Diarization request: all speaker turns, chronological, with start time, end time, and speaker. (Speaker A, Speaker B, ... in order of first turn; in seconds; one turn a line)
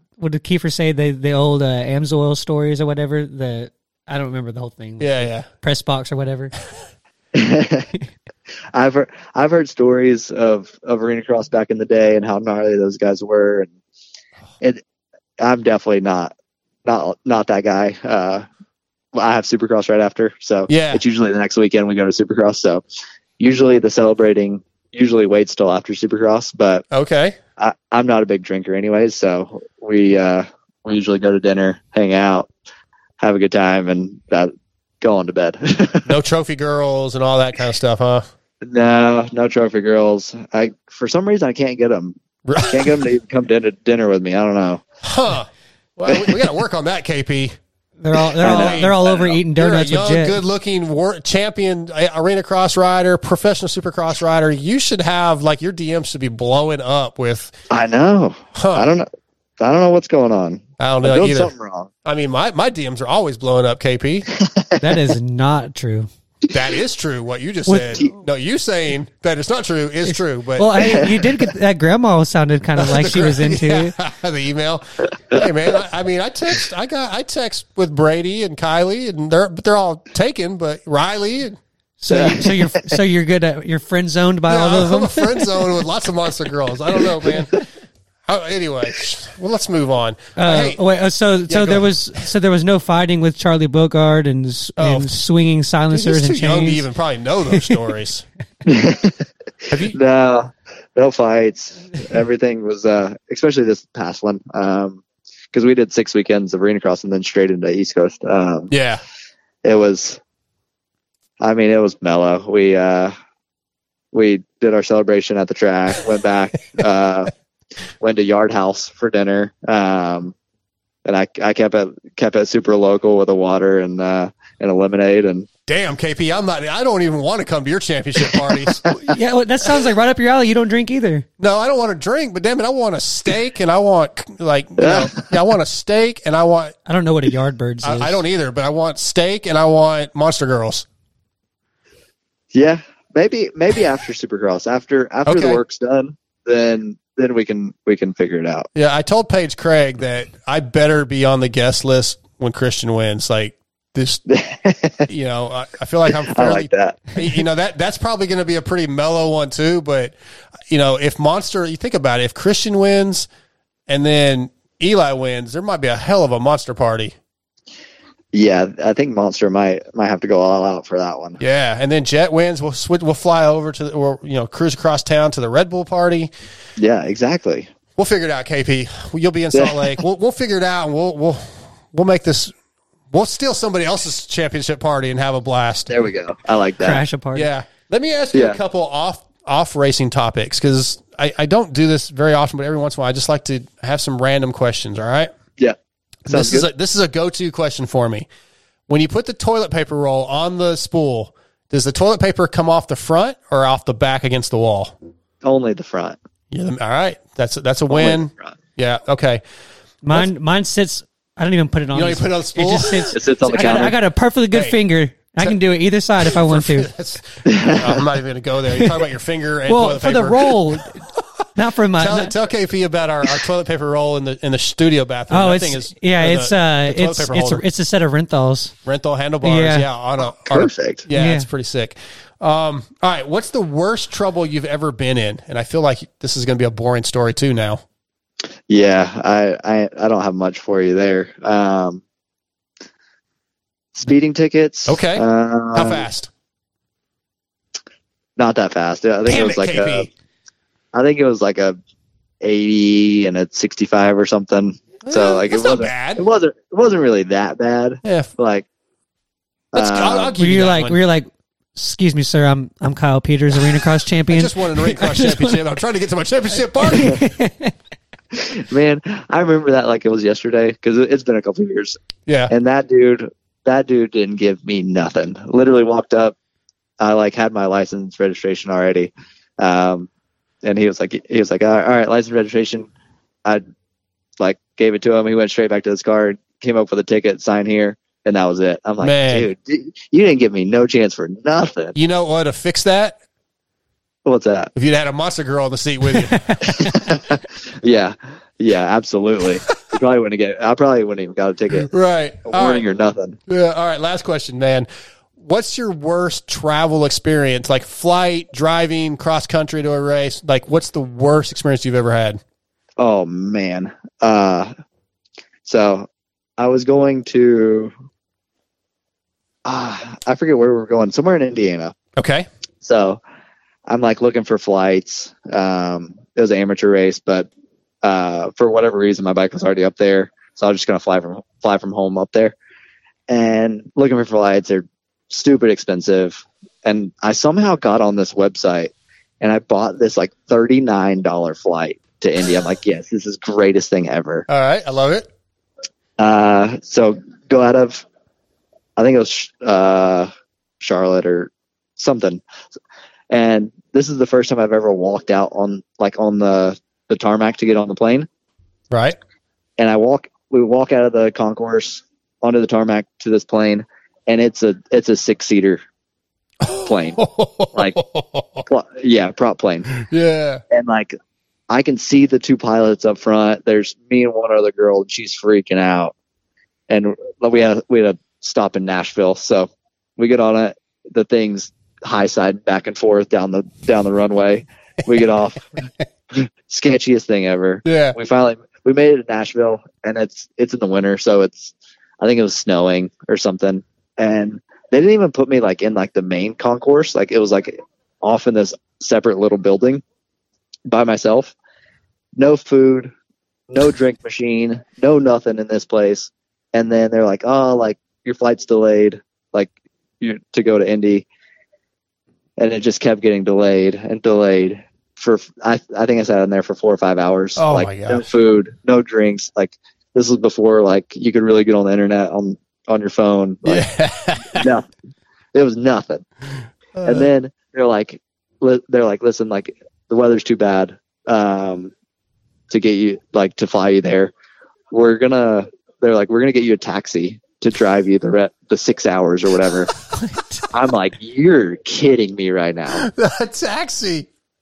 Speaker A: 0.2-6.5
Speaker B: 5.0-5.5
Speaker C: 7.4-7.9
Speaker C: 8.7-13.7
Speaker C: 15.4-18.4
Speaker C: 19.1-22.8
Speaker B: 20.7-21.0
Speaker C: 23.4-26.9
Speaker B: 26.9-27.4
Speaker C: 27.6-32.5
Speaker C: 33.2-36.1
Speaker B: 36.1-38.3
Speaker C: 38.6-44.8
Speaker B: 42.5-43.1
Speaker B: 45.0-47.6
Speaker A: 48.0-50.4
Speaker B: 48.4-57.5
Speaker C: 48.4-48.8
Speaker C: 57.7-59.1
Speaker B: 58.5-58.9
Speaker C: 59.6-61.9
Speaker B: 60.8-61.5
Speaker B: 62.0-64.3
Speaker C: 64.3-64.8
Speaker A: 64.8-66.1
Speaker B: 66.5-71.0
Speaker A: 67.7-68.0
Speaker A: 70.0-73.9
Speaker B: 72.8-81.6
Speaker A: 82.0-85.4
Speaker C: 82.1-82.5
Speaker B: 82.1-82.4
Speaker B: 84.5-87.5
Speaker B: 88.3-90.8
Speaker A: 90.4-96.8
Speaker B: 91.5-92.2
Speaker B: 94.8-95.2
Speaker B: 95.9-98.2
Speaker C: 98.7-99.2
Speaker B: 99.7-100.0
Speaker C: 99.9-108.7
Speaker B: 108.7-109.0
Speaker C: 109.6-110.2
Speaker C: 111.4-113.1
Speaker C: 114.1-117.3
Speaker C: 118.0-120.3
Speaker C: 121.0-125.5
Speaker B: 125.7-128.8
Speaker A: 129.1-131.3
Speaker B: 131.4-136.8
Speaker C: 134.8-135.3
Speaker A: 136.9-138.2
Speaker B: 137.8-140.9
Speaker C: 142.5-148.7
Speaker B: 145.3-145.6
Speaker B: 148.8-154.2
Speaker C: 154.3-155.1
Speaker B: 155.1-160.2
Speaker C: 156.3-157.1
Speaker B: 160.7-163.3
Speaker B: 163.9-167.2
Speaker C: 168.3-171.4
Speaker B: 171.4-176.3
Speaker C: 176.8-177.7
Speaker B: 178.0-182.5
Speaker C: 179.5-179.9
Speaker B: 183.1-185.9
Speaker C: 185.9-187.0
Speaker A: 186.8-187.5
Speaker B: 187.3-195.3
Speaker C: 188.3-188.6
Speaker B: 196.3-198.3
Speaker C: 196.3-196.7
Speaker B: 198.9-204.9
Speaker C: 205.4-206.2
Speaker B: 206.5-209.4
Speaker C: 207.9-208.6
Speaker A: 210.0-216.9
Speaker B: 211.9-213.9
Speaker C: 213.1-213.9
Speaker B: 216.2-221.2
Speaker C: 217.5-218.0
Speaker A: 219.7-221.0
Speaker A: 221.6-222.3
Speaker B: 222.0-227.6
Speaker A: 225.3-228.7
Speaker B: 228.8-237.8
Speaker A: 229.4-229.9
Speaker C: 230.3-231.1
Speaker A: 231.1-231.5
Speaker C: 238.7-242.0
Speaker C: 243.9-246.1
Speaker B: 244.9-246.3
Speaker C: 248.4-250.1
Speaker B: 249.2-250.1
Speaker C: 250.9-251.8
Speaker C: 252.4-258.7
Speaker B: 255.0-256.2
Speaker B: 258.0-258.3
Speaker C: 259.7-260.3
Speaker B: 259.7-261.0
Speaker A: 260.4-265.6
Speaker B: 264.3-267.2
Speaker A: 266.8-267.7
Speaker C: 268.4-272.0
Speaker B: 272.3-272.5
Speaker C: 272.5-276.4
Speaker C: 277.0-280.1
Speaker C: 280.6-282.9
Speaker C: 284.4-291.9
Speaker B: 289.0-289.5
Speaker B: 291.9-293.2
Speaker C: 294.2-294.7
Speaker B: 294.8-296.6
Speaker C: 296.8-297.2
Speaker C: 297.8-301.9
Speaker B: 301.8-302.9
Speaker C: 302.5-303.4
Speaker B: 303.5-312.4
Speaker C: 313.0-314.7
Speaker C: 315.6-316.1
Speaker C: 316.6-317.9
Speaker C: 319.7-322.0
Speaker B: 322.2-322.5
Speaker C: 322.8-323.2
Speaker C: 323.9-327.5
Speaker C: 328.0-332.6
Speaker C: 333.3-344.5
Speaker B: 344.5-345.3
Speaker C: 346.2-348.1
Speaker C: 349.0-350.3
Speaker C: 350.8-352.4
Speaker C: 353.3-358.3
Speaker B: 358.9-359.2
Speaker C: 359.8-365.8
Speaker B: 366.6-368.6
Speaker C: 366.9-367.2
Speaker C: 367.7-368.0
Speaker C: 368.7-370.0
Speaker B: 370.1-370.6
Speaker C: 370.7-371.1
Speaker C: 371.7-376.1
Speaker C: 376.9-385.6
Speaker C: 386.4-400.0
Speaker B: 387.9-388.2
Speaker C: 400.9-401.6
Speaker C: 402.4-403.1
Speaker C: 403.7-411.3
Speaker C: 412.6-423.9
Speaker B: 417.6-418.3
Speaker B: 423.6-424.7
Speaker C: 424.6-424.9
Speaker C: 425.5-426.3
Speaker B: 427.0-427.3
Speaker C: 427.0-431.9
Speaker C: 432.7-434.3
Speaker C: 434.9-439.9
Speaker A: 440.2-440.6
Speaker C: 440.7-443.1
Speaker B: 442.9-444.3